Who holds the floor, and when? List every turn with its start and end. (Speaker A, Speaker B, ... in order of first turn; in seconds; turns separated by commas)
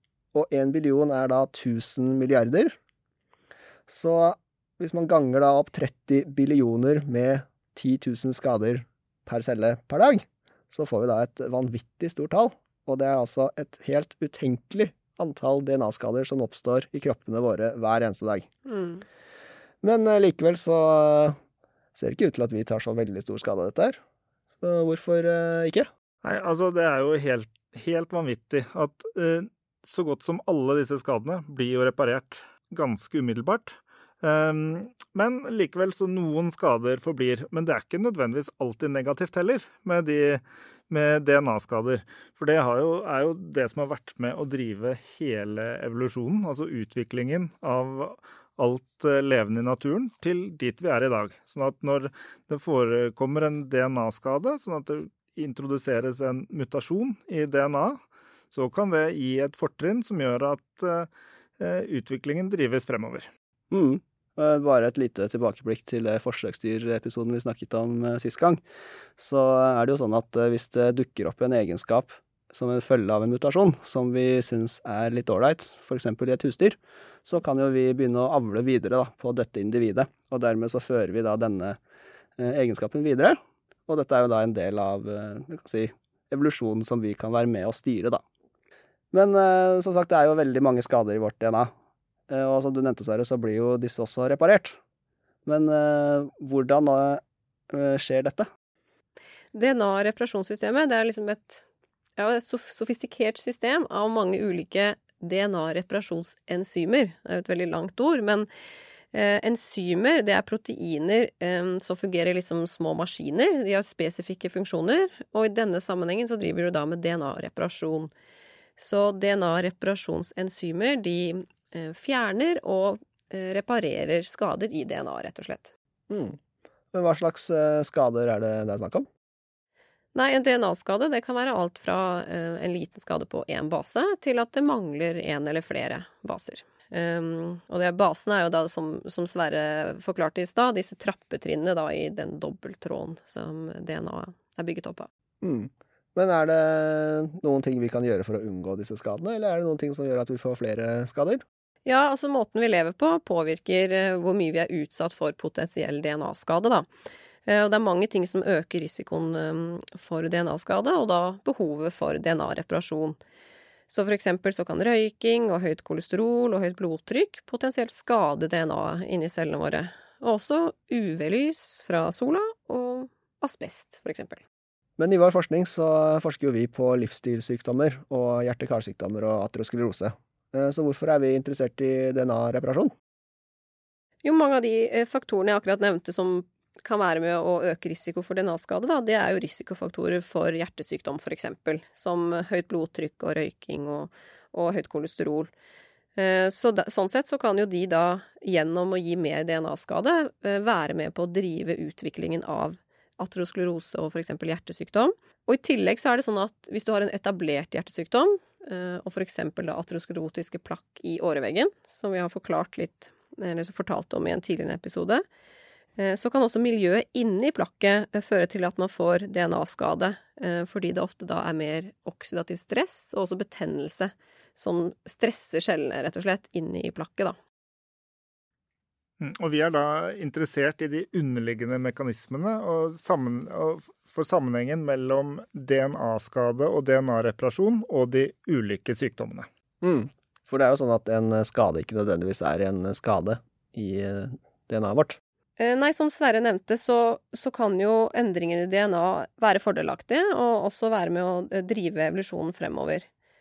Speaker A: 0.3-2.7, Speaker A: 3.9-18.5, Speaker B: 18.6-19.0, Speaker A: 19.8-21.4, Speaker A: 21.9-24.0, Speaker A: 24.6-25.9, Speaker C: 26.2-58.0, Speaker C: 58.5-63.3, Speaker A: 63.7-68.6, Speaker A: 69.2-81.8, Speaker A: 82.4-88.2, Speaker A: 89.1-91.7, Speaker A: 92.3-94.8, Speaker A: 95.5-98.5, Speaker B: 99.5-101.6, Speaker B: 102.2-108.5, Speaker B: 109.1-118.1, Speaker B: 118.8-125.7, Speaker A: 126.1-126.4, Speaker A: 126.9-129.1, Speaker B: 130.1-145.1, Speaker A: 145.4-151.4, Speaker B: 151.8-156.9, Speaker B: 157.4-163.2, Speaker B: 163.9-174.4, Speaker A: 175.0-182.9, Speaker B: 184.2-195.5, Speaker B: 196.2-215.2, Speaker B: 216.0-227.4, Speaker C: 229.2-239.5, Speaker A: 239.8-245.2, Speaker B: 245.6-253.1